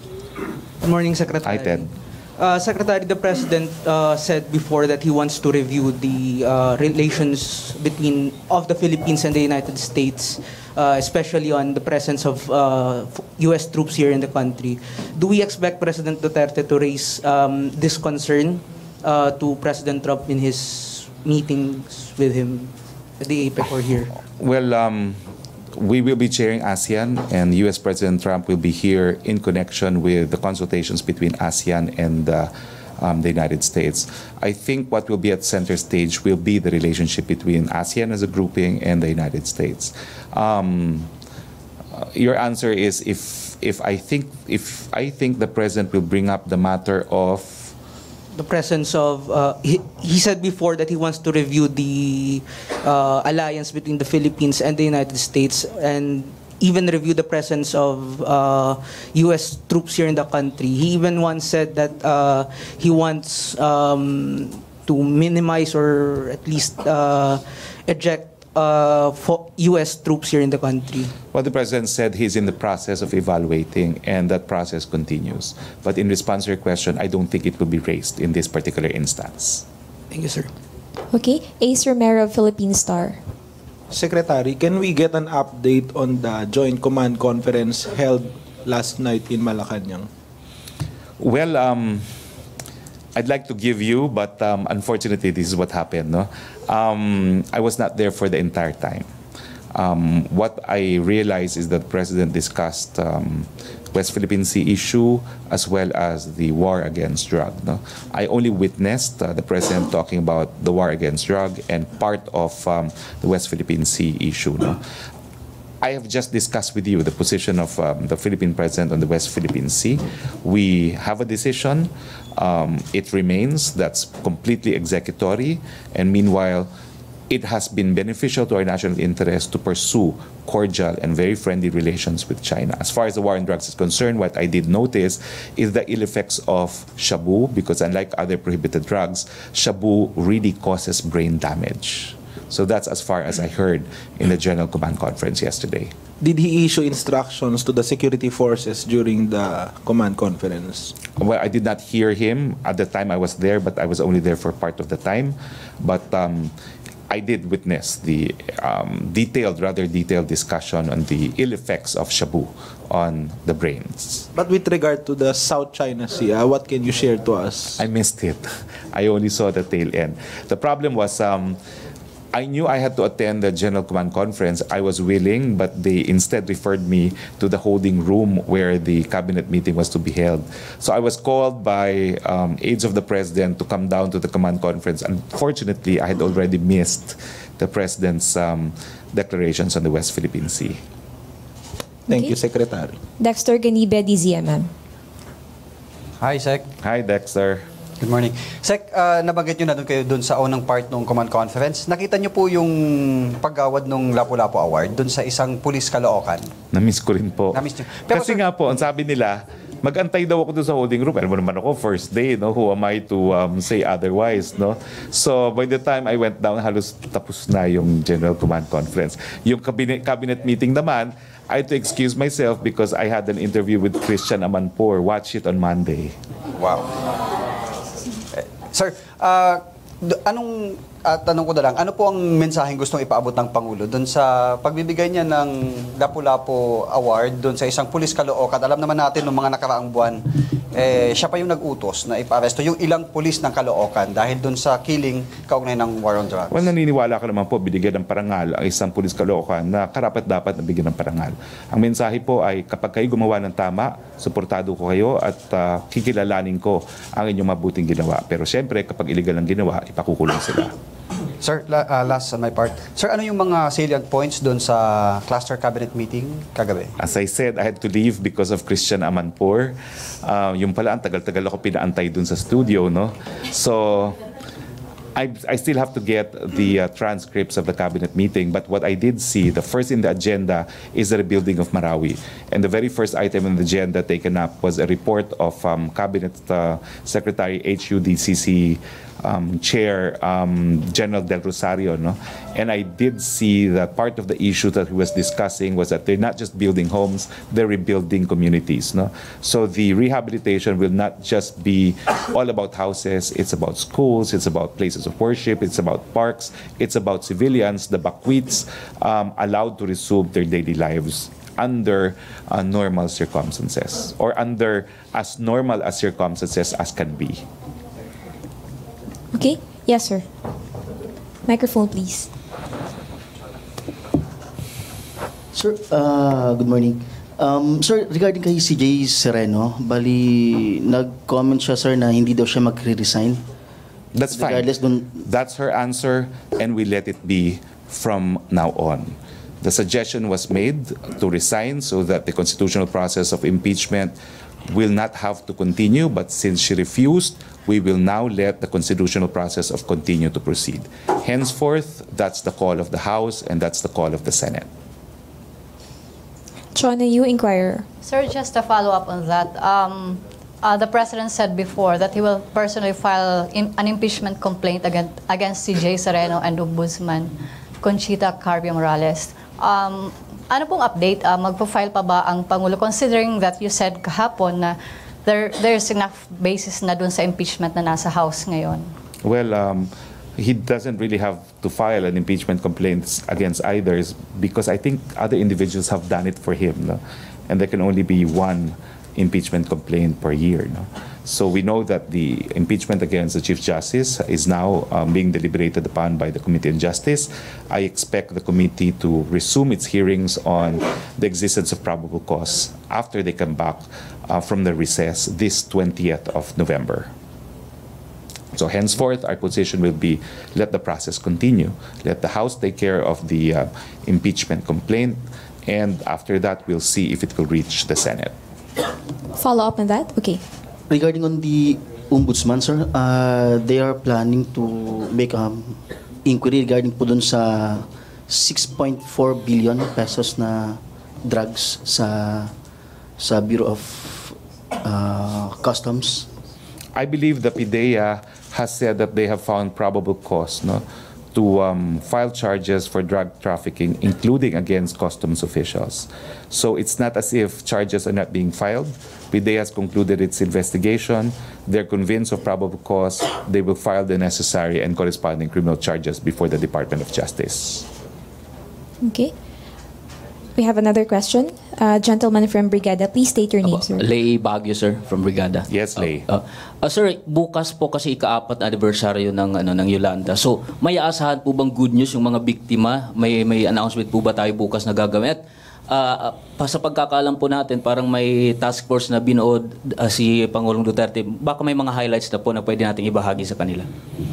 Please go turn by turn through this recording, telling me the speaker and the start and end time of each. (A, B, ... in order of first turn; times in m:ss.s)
0:00.8-0:24.1 A
0:01.4-0:01.9 B
0:24.4-0:25.2 B
0:25.7-0:41.1 B
0:41.9-0:47.7 B
0:48.3-1:11.1 A
1:11.3-1:19.6 B
1:20.1-1:20.5 A
1:21.1-1:23.2 C
1:23.9-1:30.1 D
1:31.2-1:32.1 B
1:33.2-1:39.1 B
1:39.7-1:54.8 B
1:55.8-2:06.7 B
2:07.3-2:25.9 B
2:26.2-2:30.9 D
2:31.2-2:36.5 B
2:37.1-2:44.3 B
2:44.3-2:47.8 D
2:47.8-2:51.6 B
2:52.3-3:10.8 B
3:12.1-3:13.0 D
3:12.1-3:12.4 C
3:13.2-3:14.7 C
3:16.2-3:16.7 E
3:16.8-3:17.7 B
3:18.0-3:26.5 E
3:26.7-3:46.2 B
3:27.5-3:28.4 E
3:46.5-3:46.9 E
3:48.4-4:06.6 E
4:06.5-4:20.8 B
4:21.4-4:26.9 E
4:27.0-4:34.2 B
4:35.2-5:17.4 B
5:19.3-5:20.2 C
5:21.4-5:22.3 C
5:25.5-5:33.4 F
5:34.1-5:44.2 B
5:34.3-5:35.2 F
5:44.7-5:54.7 B
5:56.8-5:57.9 C
5:58.0-6:18.9 G
6:19.2-6:47.1 B
6:48.5-6:58.3 B
6:59.4-7:00.4 C
7:00.9-7:12.5 F
7:13.2-7:16.3 F
7:17.0-7:37.9 B
7:39.0-7:39.3 C
7:40.6-7:44.0 C
7:43.6-8:03.9 H
7:45.7-7:46.3 B